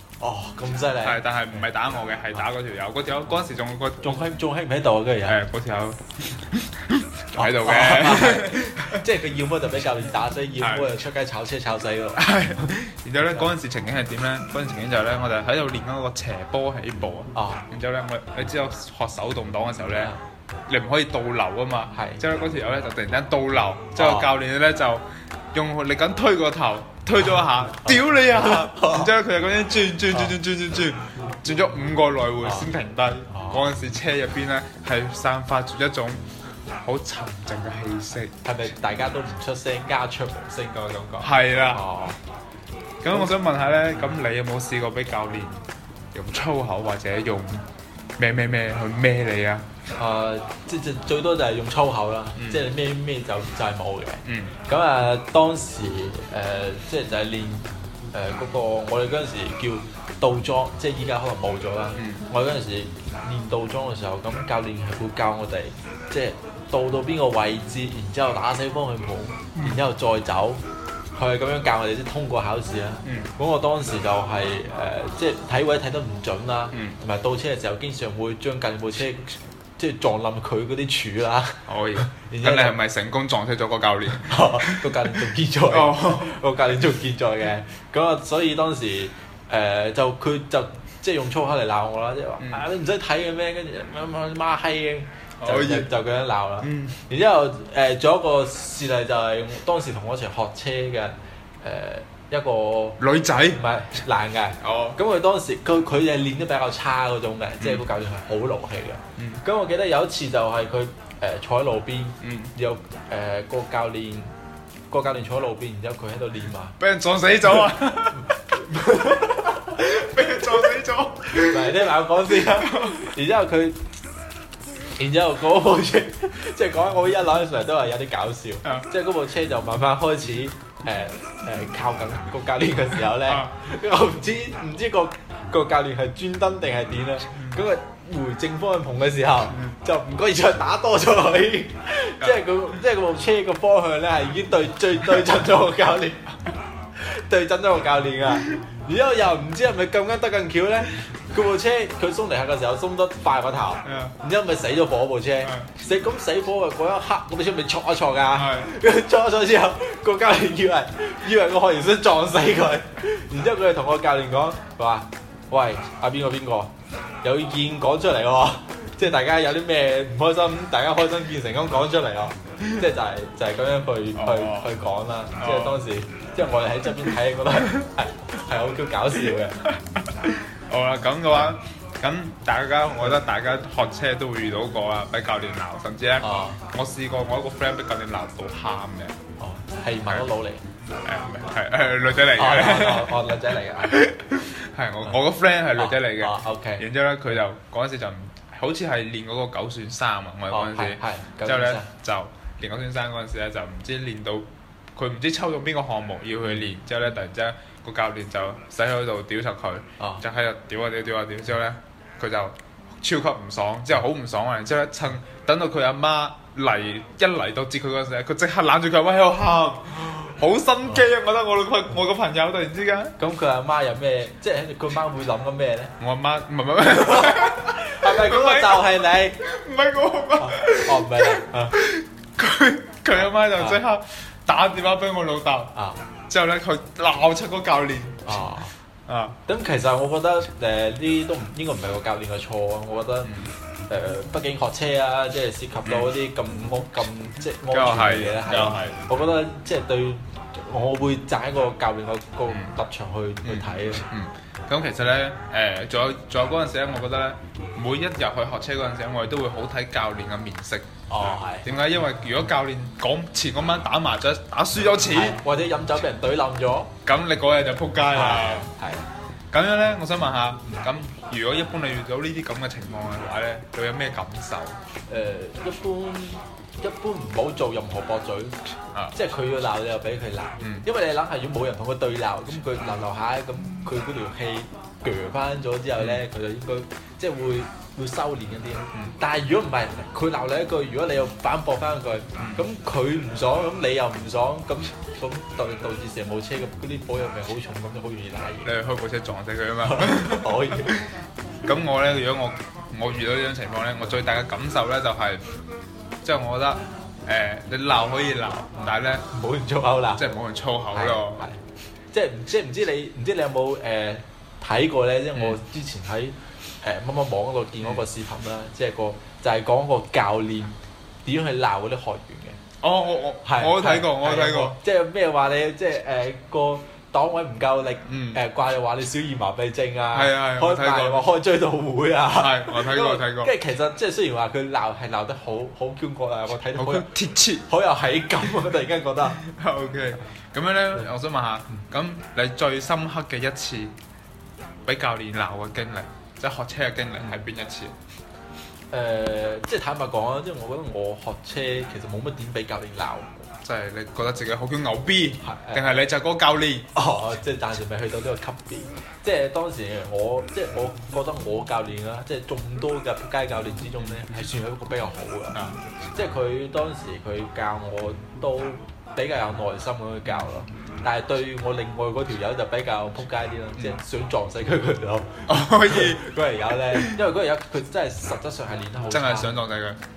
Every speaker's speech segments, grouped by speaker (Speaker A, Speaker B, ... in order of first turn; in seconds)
Speaker A: 0.2-1.7, 4.0-5.4, 7.3-12.2, 17.3-17.6, 21.9-22.2, 24.0-24.3, 27.8-29.1, 32.4-32.7, 33.3-33.7, 38.4-42.2, 50.0-70.6, 71.1-82.8, 84.2-114.3, 114.9-116.8, 118.3-120.7, 121.3-123.8, 125.0-146.4, 146.9-179.7, 186.2-186.6, 189.4-190.6, 192.3-194.1, 195.8-196.8, 200.5-201.9, 223.2-225.9, 226.9-229.4, 230.4-231.8, 233.5-233.8, 235.8-236.0, 238.2-238.7, 239.5-243.3, 243.9-254.1, 261.1-261.7, 265.0-266.9, 268.1-269.1, 275.1-278.6, 279.1-298.7, 299.9-301.1, 308.8-310.2, 310.9-311.6, 312.1-322.6, 323.4-339.4, 348.9-353.5, 355.4-356.0, 356.9-365.6, 366.1-379.5
Speaker B: 1.0-4.2, 5.3-9.0, 10.6-10.9, 12.2-20.1, 20.7-36.2, 36.8-38.4, 41.2-41.9, 43.0-47.7, 48.2-49.7, 52.4-52.7, 54.2-54.5, 62.0-62.2, 69.6-69.8, 73.0-73.3, 81.7-86.3, 92.4-92.7, 95.4-95.9, 96.6-97.0, 103.0-103.6, 104.6-105.0, 107.6-107.8, 109.2-109.4, 112.2-112.5, 116.8-118.3, 119.0-123.1, 128.6-128.9, 133.2-133.5, 137.3-137.6, 153.8-154.2, 155.4-155.7, 158.3-158.7, 174.2-174.7, 175.4-175.8, 179.7-189.2, 191.0-223.2, 226.0-235.7, 236.3-238.4, 239.1-239.4, 243.2-243.5, 245.9-246.1, 247.7-249.0, 252.5-252.7, 253.4-260.9, 261.6-265.4, 267.1-268.7, 269.5-274.8, 280.6-280.9, 298.6-301.1, 301.6-305.4, 306.2-309.3, 310.2-311.5, 322.8-324.8, 328.1-328.4, 330.1-331.3, 332.3-333.5, 336.7-337.7, 339.4-343.9, 344.9-347.9, 353.6-356.9, 365.5-365.8, 375.5-376.3, 376.9-377.2, 379.1-380.0